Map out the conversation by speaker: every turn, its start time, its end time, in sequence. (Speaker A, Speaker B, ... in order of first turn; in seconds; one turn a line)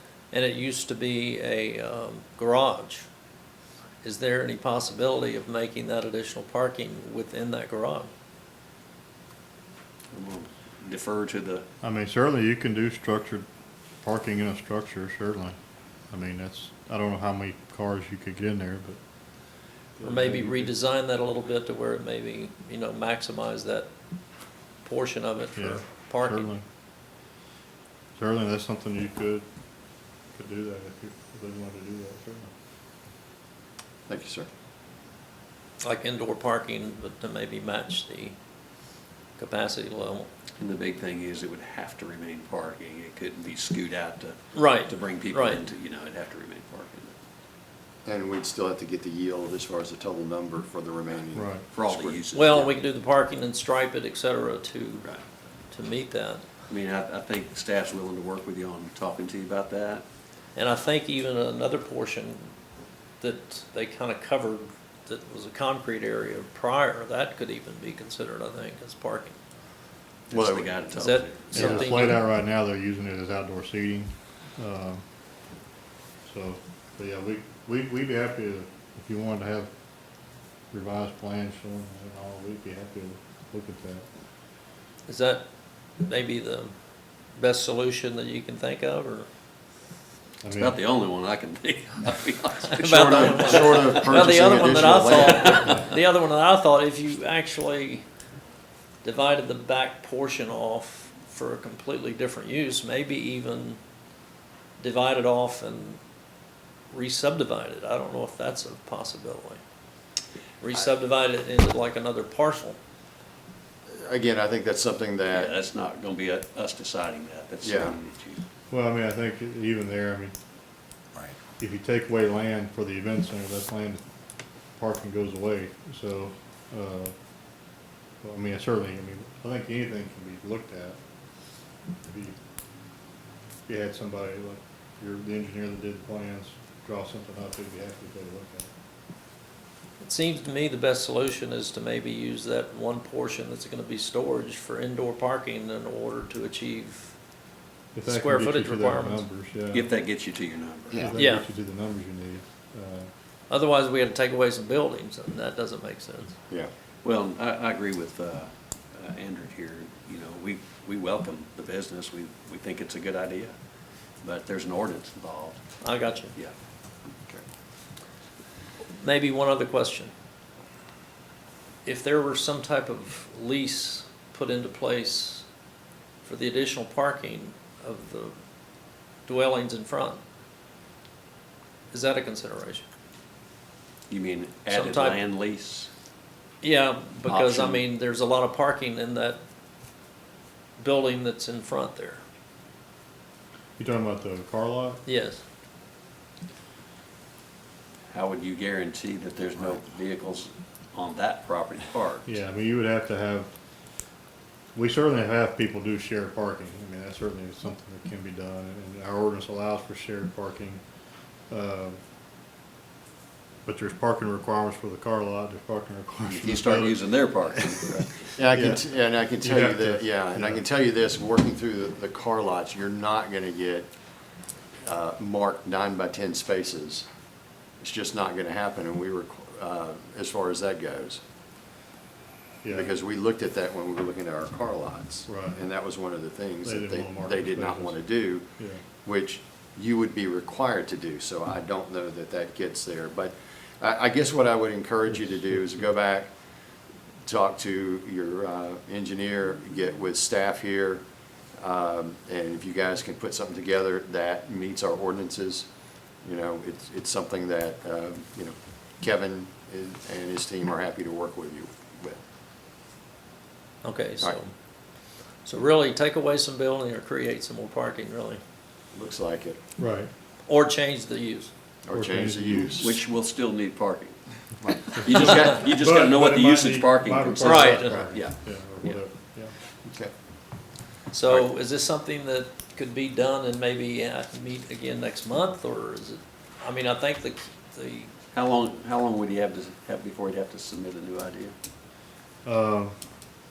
Speaker A: 0.3-3.1
Speaker A: 4.0-8.1
Speaker B: 10.1-11.6
Speaker C: 11.8-13.4
Speaker C: 14.0-15.6
Speaker C: 16.1-19.0
Speaker C: 20.0-20.7
Speaker A: 20.0-23.9
Speaker A: 24.8-26.5
Speaker C: 25.6-26.6
Speaker C: 28.2-29.4
Speaker C: 30.3-32.5
Speaker D: 34.1-34.5
Speaker A: 35.8-38.4
Speaker A: 39.4-40.3
Speaker B: 40.6-47.1
Speaker A: 44.5-45.6
Speaker D: 48.0-52.2
Speaker C: 51.3-51.6
Speaker B: 51.7-52.8
Speaker A: 52.3-55.1
Speaker A: 55.7-56.5
Speaker B: 56.7-60.0
Speaker A: 60.5-62.5
Speaker A: 63.2-69.4
Speaker B: 70.3-72.1
Speaker D: 70.3-70.8
Speaker A: 71.0-72.2
Speaker C: 71.5-75.0
Speaker C: 76.2-79.7
Speaker C: 80.7-84.0
Speaker A: 85.1-85.5
Speaker A: 86.0-86.7
Speaker A: 87.3-89.3
Speaker C: 90.4-90.8
Speaker B: 90.5-95.8
Speaker A: 92.7-98.0
Speaker D: 92.9-95.6
Speaker A: 99.0-103.8
Speaker A: 104.8-106.0
Speaker A: 106.9-109.6
Speaker A: 110.6-112.8
Speaker D: 113.9-115.5
Speaker B: 115.3-118.4
Speaker D: 117.6-118.0
Speaker C: 118.7-120.3
Speaker C: 121.6-124.0
Speaker C: 124.8-127.1
Speaker C: 128.2-131.0
Speaker C: 132.0-132.3
Speaker C: 133.7-138.7
Speaker A: 140.0-147.2
Speaker C: 147.9-149.9
Speaker A: 148.0-149.2
Speaker B: 149.7-151.1
Speaker C: 150.9-153.1
Speaker A: 151.2-151.4
Speaker A: 153.5-156.3
Speaker B: 157.0-163.5
Speaker B: 164.2-165.6
Speaker A: 165.8-166.3
Speaker A: 168.9-170.1
Speaker A: 171.8-175.4
Speaker A: 176.2-178.3
Speaker A: 179.2-180.2
Speaker A: 181.9-182.8
Speaker B: 184.1-185.9
Speaker A: 184.7-185.2
Speaker A: 186.6-189.4
Speaker B: 187.3-187.8
Speaker A: 190.8-192.2
Speaker C: 193.8-195.0
Speaker A: 195.1-195.4
Speaker B: 198.1-202.3
Speaker C: 202.2-203.5
Speaker C: 204.7-210.8
Speaker C: 211.5-212.0
Speaker C: 213.6-217.5
Speaker B: 216.3-218.2
Speaker D: 218.3-223.9
Speaker C: 218.5-218.8
Speaker C: 219.4-220.6
Speaker D: 224.8-227.1
Speaker D: 227.8-231.2
Speaker C: 232.6-232.9
Speaker D: 232.7-238.5
Speaker C: 235.3-235.6
Speaker C: 236.6-238.0
Speaker D: 239.0-246.3
Speaker C: 245.1-245.8
Speaker D: 247.2-251.0
Speaker D: 251.6-255.7
Speaker D: 256.2-262.2
Speaker A: 263.8-264.5
Speaker A: 265.4-268.4
Speaker D: 268.9-269.6
Speaker C: 269.8-270.1
Speaker A: 270.5-271.5
Speaker D: 271.8-273.0
Speaker C: 271.9-272.9
Speaker B: 272.8-274.2
Speaker D: 274.6-275.5
Speaker B: 274.9-279.0
Speaker C: 275.6-279.5
Speaker A: 277.4-278.0
Speaker A: 281.1-288.1
Speaker B: 288.3-291.5
Speaker C: 292.4-292.9